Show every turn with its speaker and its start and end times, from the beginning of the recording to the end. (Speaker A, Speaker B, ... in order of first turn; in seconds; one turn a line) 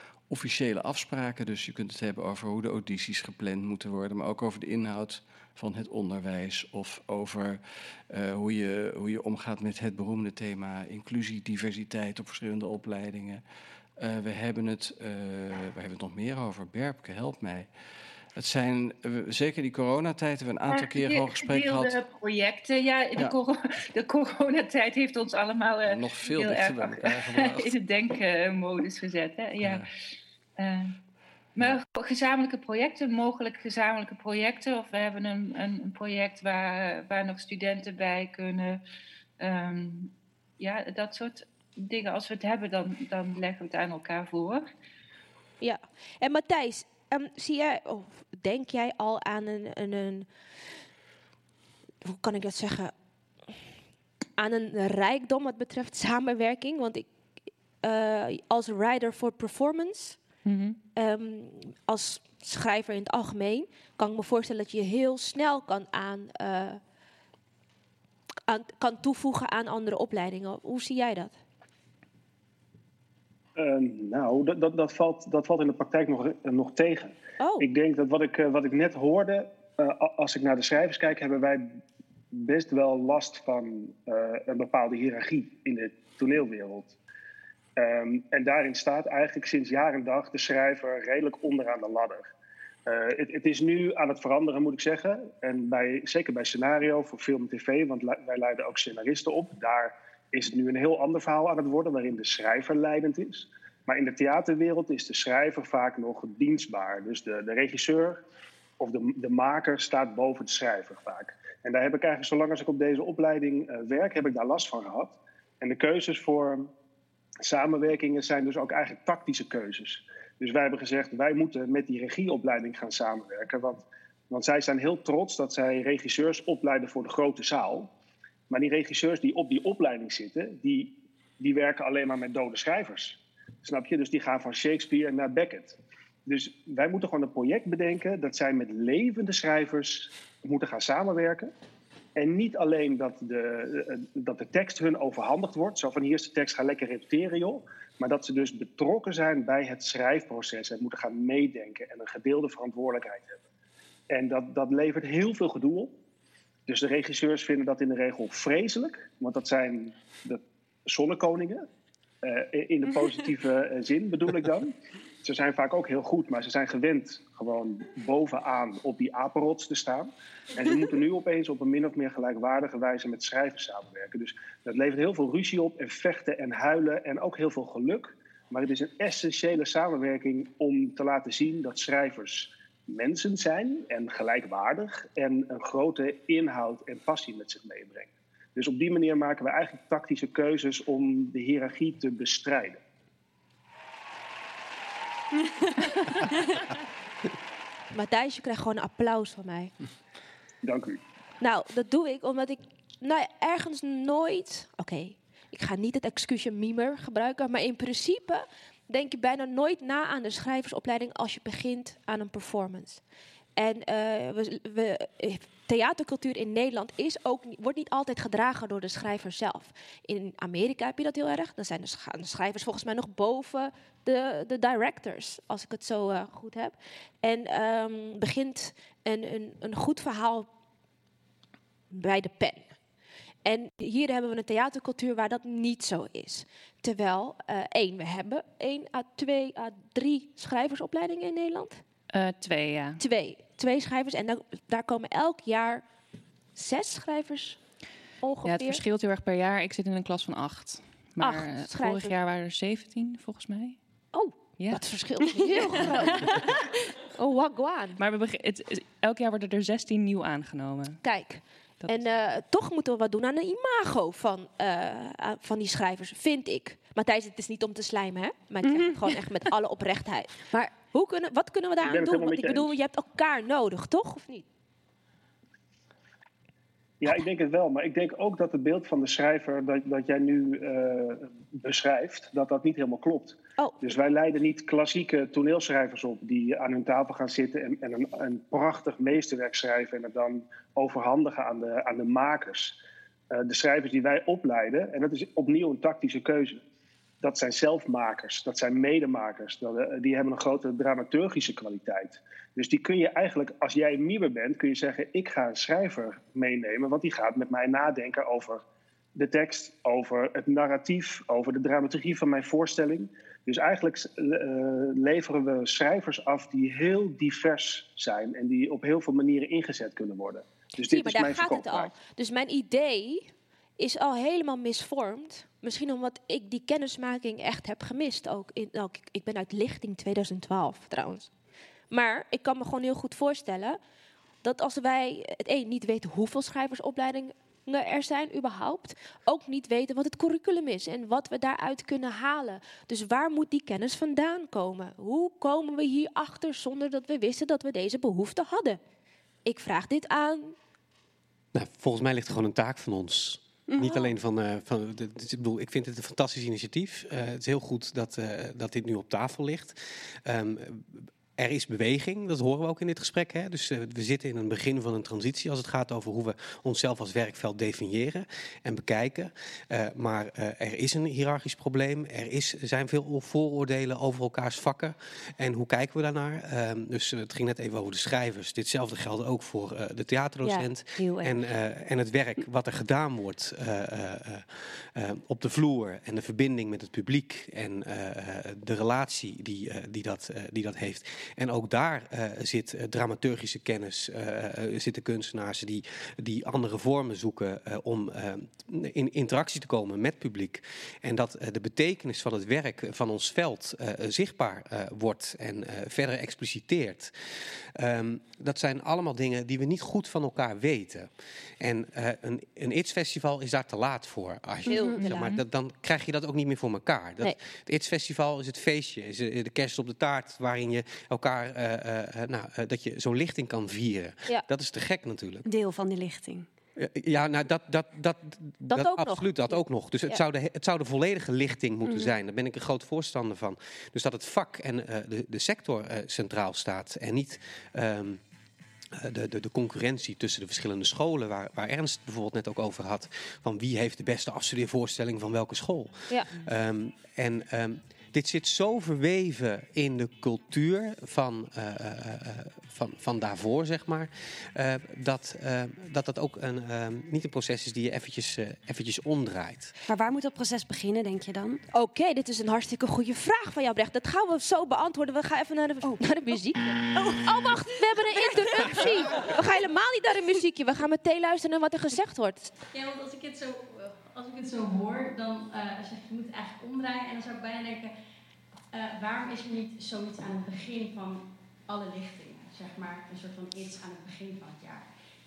Speaker A: 0.3-13.4
Speaker A: 14.0-17.7
Speaker A: 18.4-22.0
Speaker B: 20.7-29.9
Speaker A: 25.9-27.7
Speaker A: 29.6-29.9
Speaker B: 30.6-30.9
Speaker B: 31.6-38.8
Speaker B: 39.4-44.7
Speaker C: 45.6-50.3
Speaker C: 52.0-52.9
Speaker C: 54.4-57.1
Speaker C: 57.8-60.2
Speaker D: 60.5-60.8
Speaker C: 60.9-66.8
Speaker C: 68.5-71.3
Speaker E: 73.6-81.8
Speaker C: 77.4-77.7
Speaker E: 82.3-87.0
Speaker E: 87.8-92.3
Speaker E: 92.8-108.2
Speaker E: 108.8-116.7
Speaker E: 117.4-127.9
Speaker E: 128.5-141.5
Speaker E: 142.2-153.4
Speaker E: 154.1-155.9
Speaker E: 156.7-161.7
Speaker E: 162.2-192.8
Speaker C: 197.9-199.7
Speaker E: 200.6-201.0
Speaker C: 201.4-213.0
Speaker C: 213.6-230.5
Speaker C: 231.9-232.7
Speaker C: 233.4-241.8
Speaker D: 242.1-243.0
Speaker C: 243.0-245.8
Speaker C: 246.5-247.6
Speaker C: 248.2-248.8
Speaker D: 248.4-253.8
Speaker C: 251.2-252.1
Speaker C: 254.1-256.5
Speaker F: 255.4-256.4
Speaker C: 257.1-258.0
Speaker D: 258.0-261.0
Speaker C: 261.0-274.4
Speaker D: 261.8-262.1
Speaker F: 268.6-268.9
Speaker E: 271.8-272.7
Speaker E: 277.0-292.8
Speaker C: 283.6-283.9
Speaker E: 293.3-296.6
Speaker E: 297.2-308.6
Speaker E: 309.1-321.9
Speaker C: 320.8-331.3
Speaker C: 331.9-333.8
Speaker C: 334.4-348.8
Speaker C: 349.4-350.5
Speaker G: 351.5-411.1
Speaker C: 353.8-354.1
Speaker F: 380.4-381.4
Speaker G: 411.6-425.4
Speaker C: 414.7-415.3
Speaker F: 414.7-415.0
Speaker F: 425.4-426.5
Speaker G: 426.8-438.2
Speaker C: 428.7-430.2
Speaker F: 431.9-432.1
Speaker G: 438.9-459.7
Speaker F: 459.9-461.6
Speaker C: 461.7-472.5
Speaker F: 468.7-469.2
Speaker H: 472.7-477.9
Speaker H: 478.7-484.9